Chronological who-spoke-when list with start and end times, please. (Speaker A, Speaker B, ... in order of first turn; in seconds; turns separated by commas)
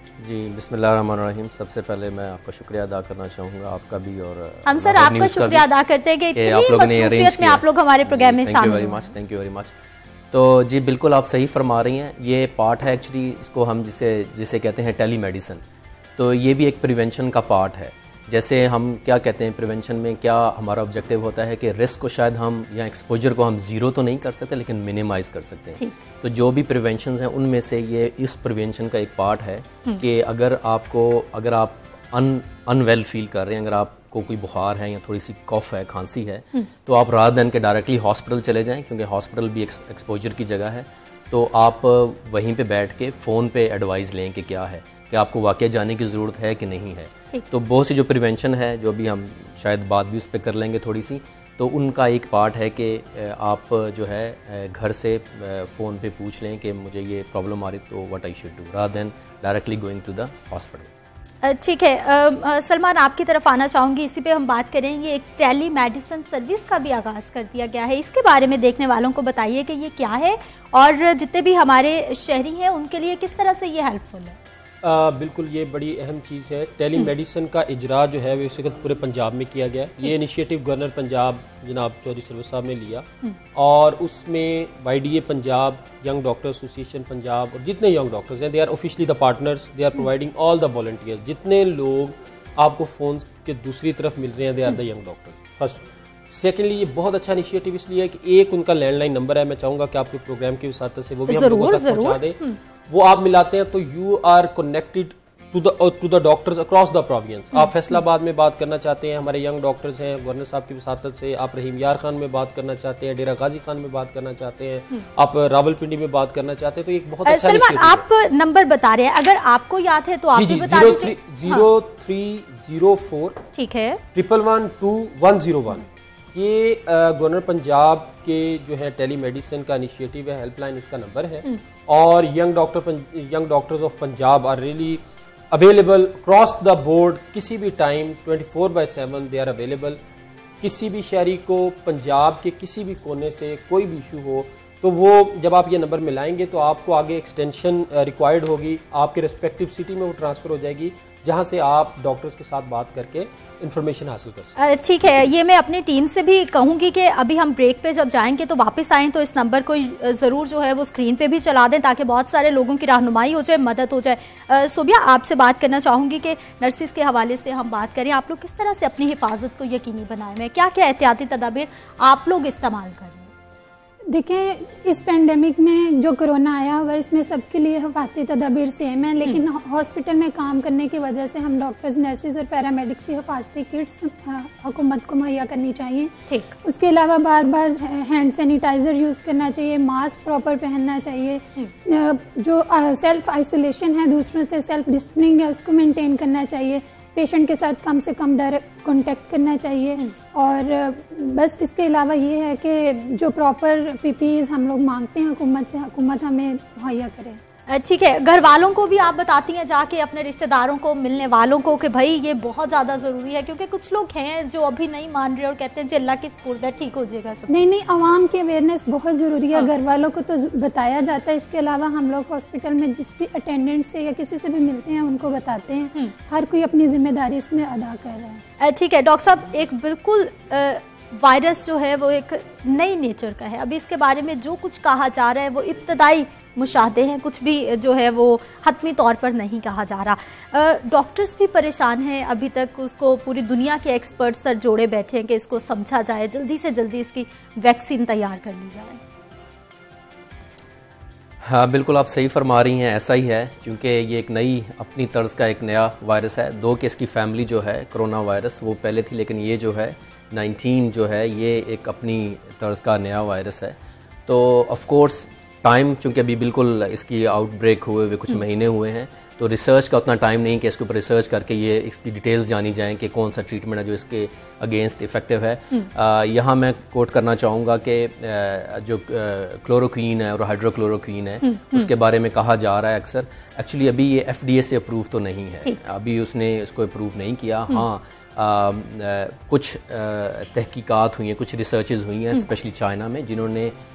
Speaker A: 0.2-5.7, Speaker B: 4.7-9.1, Speaker A: 6.3-9.7, Speaker A: 10.3-15.6, Speaker A: 16.2-60.9, Speaker B: 61.4-74.4, Speaker C: 74.8-118.0, Speaker B: 101.3-102.5, Speaker B: 117.2-121.7, Speaker C: 120.3-123.4, Speaker B: 123.5-124.0, Speaker C: 124.1-140.0, Speaker C: 140.6-154.5, Speaker B: 154.6-173.3, Speaker D: 174.1-207.4, Speaker B: 207.7-217.6, Speaker D: 217.5-228.4, Speaker B: 228.6-249.0, Speaker A: 251.4-293.8, Speaker B: 281.4-281.9